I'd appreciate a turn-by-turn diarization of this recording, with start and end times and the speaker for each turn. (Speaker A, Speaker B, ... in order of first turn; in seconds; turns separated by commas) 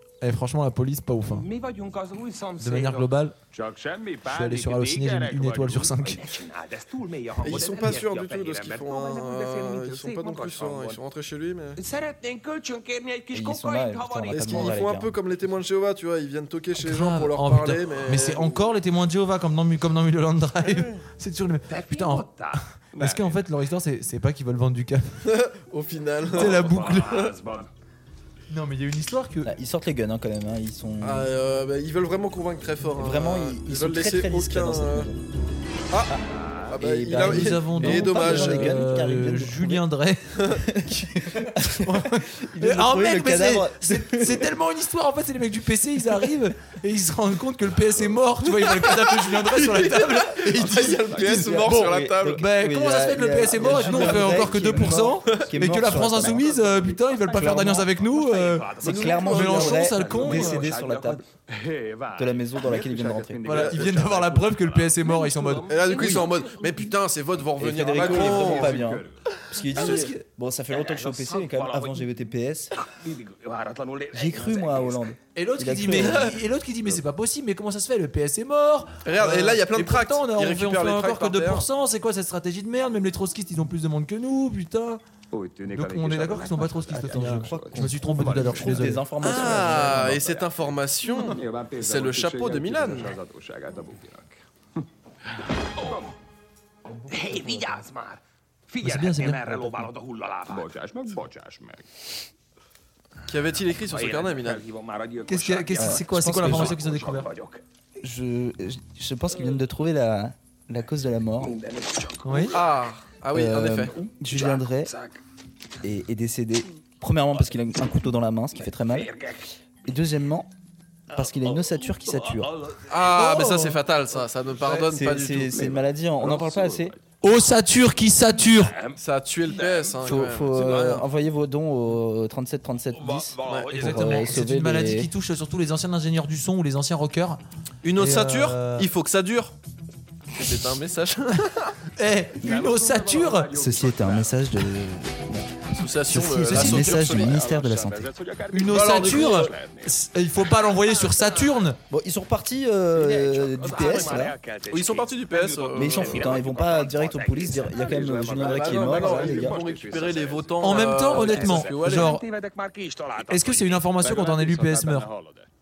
Speaker A: 0.2-1.5, Speaker B: 1.2-3.1, Speaker A: 2.6-3.4, Speaker C: 3.5-5.9, Speaker A: 4.3-6.4, Speaker B: 4.6-5.1, Speaker B: 5.8-11.0, Speaker D: 7.4-11.8, Speaker B: 11.8-14.8, Speaker E: 13.3-15.1, Speaker D: 14.3-18.6, Speaker A: 16.8-25.2, Speaker B: 21.7-22.6, Speaker C: 22.9-23.4, Speaker D: 25.2-27.3, Speaker A: 26.3-27.1, Speaker C: 26.4-27.6, Speaker B: 26.6-27.3, Speaker A: 28.5-29.5, Speaker E: 29.4-31.3, Speaker D: 31.0-35.1, Speaker E: 32.9-35.2, Speaker D: 35.9-36.1, Speaker D: 36.7-38.9, Speaker E: 36.7-39.9, Speaker A: 37.1-40.4, Speaker D: 40.4-41.3, Speaker E: 40.6-44.5, Speaker A: 41.6-58.7, Speaker D: 48.4-52.4, Speaker C: 50.6-51.6, Speaker E: 51.1-56.4, Speaker D: 53.6-54.2, Speaker C: 54.2-54.6, Speaker D: 54.9-55.5, Speaker C: 56.0-57.2, Speaker B: 56.6-59.3, Speaker E: 57.3-57.9, Speaker D: 58.8-59.9, Speaker E: 58.8-61.2, Speaker A: 59.2-60.8, Speaker C: 60.1-66.0, Speaker B: 60.4-61.2, Speaker E: 62.2-63.5, Speaker A: 63.4-66.2, Speaker D: 63.5-64.0, Speaker B: 65.5-65.9, Speaker D: 65.7-69.0, Speaker E: 67.6-72.8, Speaker C: 67.8-69.1, Speaker A: 69.6-70.2, Speaker B: 70.7-72.1, Speaker B: 72.8-75.1, Speaker E: 74.1-76.4, Speaker A: 75.3-85.0, Speaker D: 75.9-76.4, Speaker D: 79.0-81.7, Speaker C: 85.3-90.5, Speaker A: 85.7-89.1, Speaker E: 86.9-90.2, Speaker D: 89.2-93.2, Speaker C: 91.1-94.4, Speaker B: 95.8-96.1, Speaker C: 95.8-96.1, Speaker B: 97.1-100.7, Speaker A: 98.8-99.9, Speaker C: 100.5-101.8, Speaker D: 103.2-104.7, Speaker B: 103.8-107.6, Speaker A: 105.3-107.3, Speaker E: 105.8-106.8, Speaker E: 108.0-111.5, Speaker B: 111.4-112.7, Speaker A: 112.2-112.6, Speaker D: 112.5-113.9, Speaker E: 113.3-114.9, Speaker B: 114.3-115.2, Speaker E: 115.8-119.1, Speaker B: 118.6-119.5, Speaker E: 119.8-120.5, Speaker E: 121.1-122.5, Speaker B: 121.1-122.8, Speaker D: 122.9-125.8, Speaker A: 123.1-123.8, Speaker E: 124.8-126.9, Speaker C: 126.2-127.0, Speaker A: 127.2-128.8, Speaker B: 128.7-129.9, Speaker D: 128.9-131.1, Speaker E: 130.0-135.1, Speaker B: 132.9-134.0, Speaker D: 133.5-134.1, Speaker A: 133.7-138.9, Speaker D: 137.8-139.5, Speaker D: 140.3-141.8, Speaker A: 142.0-143.5, Speaker C: 142.4-144.4, Speaker B: 142.8-143.4, Speaker E: 143.5-148.1, Speaker D: 145.7-147.5, Speaker A: 146.4-147.0, Speaker C: 147.0-150.0, Speaker A: 148.5-151.8, Speaker D: 148.6-149.5, Speaker B: 151.1-151.4, Speaker E: 151.9-154.3, Speaker B: 153.0-158.4, Speaker C: 153.6-154.2, Speaker D: 154.7-156.4, Speaker E: 155.7-159.6, Speaker C: 157.7-161.4, Speaker D: 158.4-162.2, Speaker A: 160.6-162.2, Speaker B: 161.2-163.9, Speaker A: 163.3-165.1, Speaker C: 163.9-165.5